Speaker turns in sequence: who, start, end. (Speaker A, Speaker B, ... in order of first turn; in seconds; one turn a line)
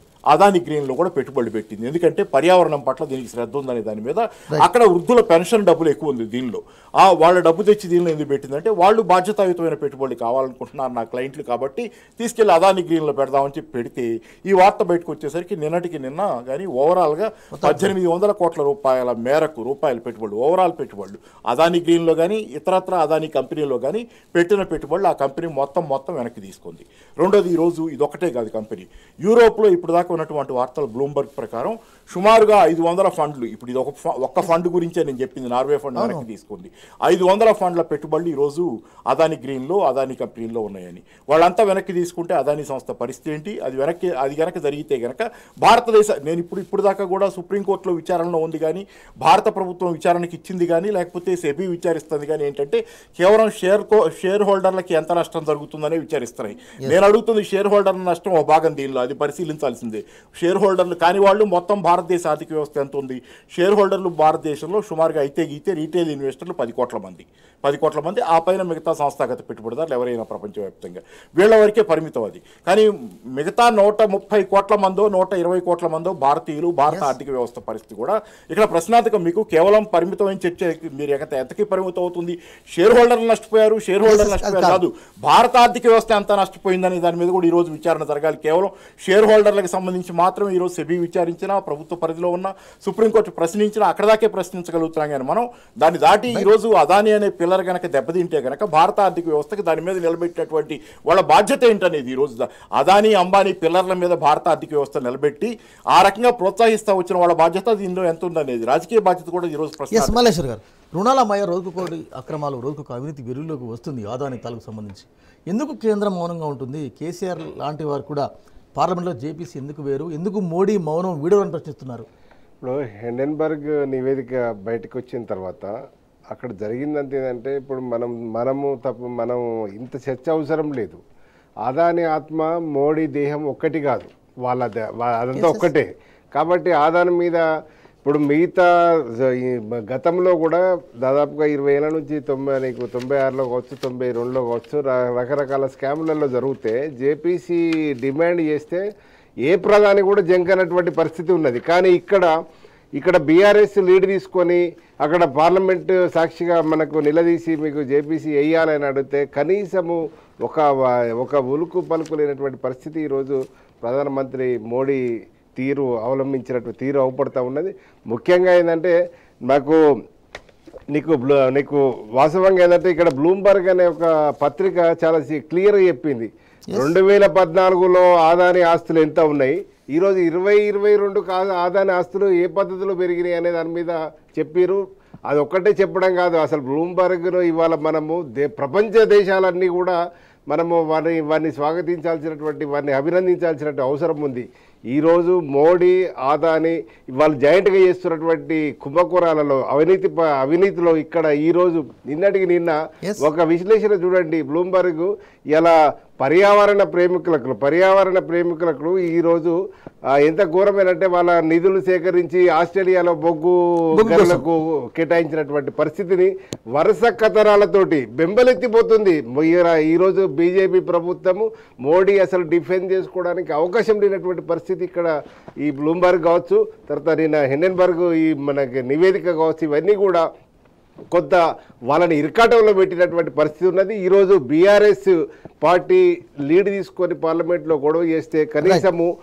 Speaker A: 0.3-110.2
Speaker B: 17.5-17.9
Speaker B: 36.0-36.2
Speaker B: 84.1-84.8
Speaker B: 109.9-122.1
Speaker C: 122.6-125.7
Speaker C: 126.3-131.0
Speaker C: 131.6-137.4
Speaker B: 135.3-135.7
Speaker C: 138.0-148.8
Speaker C: 149.4-152.3
Speaker C: 153.0-160.7
Speaker C: 161.2-165.0
Speaker C: 165.6-168.9
Speaker C: 169.5-169.8
Speaker C: 170.9-190.0
Speaker B: 176.7-176.9
Speaker C: 190.5-209.6
Speaker C: 210.2-225.1
Speaker B: 213.9-214.4
Speaker C: 225.6-230.2
Speaker C: 231.1-239.1